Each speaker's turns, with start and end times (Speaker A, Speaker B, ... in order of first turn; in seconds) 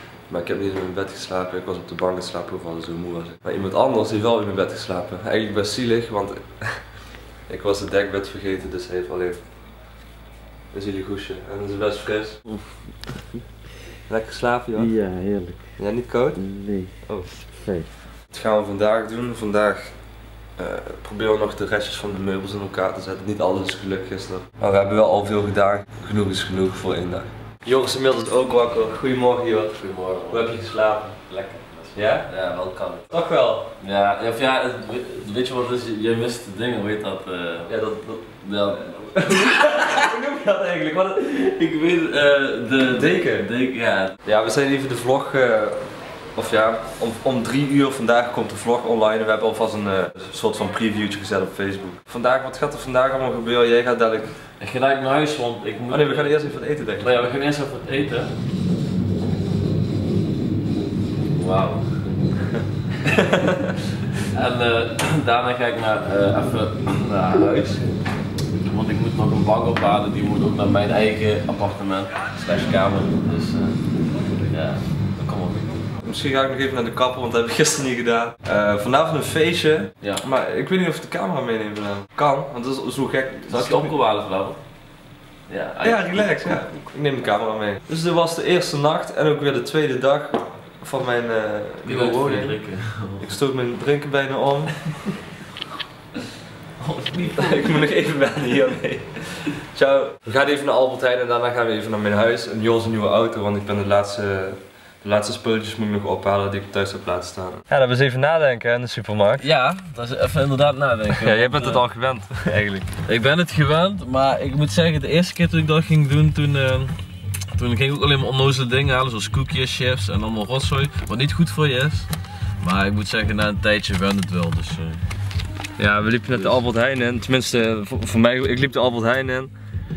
Speaker A: 0.3-6.9, 7.5-9.4, 10.7-12.4, 14.1-14.9, 15.8-16.4, 17.0-17.4, 18.3-20.0, 20.6-31.1, 31.9-32.3, 33.1-33.7, 37.7-41.3, 42.9-43.5, 44.2-54.4, 55.9-57.3, 63.1-63.7, 76.0-83.9, 85.8-92.6, 93.2-94.9, 97.4-109.5, 111.2-112.9, 125.8-129.5
Speaker B: 12.5-13.2, 14.7-15.7, 16.3-16.9, 17.5-17.9, 29.8-30.6, 31.1-33.0, 33.8-37.7, 38.4-39.0, 41.2-44.1, 54.6-56.4, 57.0-58.3, 61.3-62.0, 64.3-67.8, 68.6-73.8, 74.5-75.7, 83.5-84.6, 85.5-86.6, 91.8-93.3, 96.8-97.9, 109.4-111.8, 113.0-116.9, 117.5-122.1, 122.6-125.0, 126.3-126.6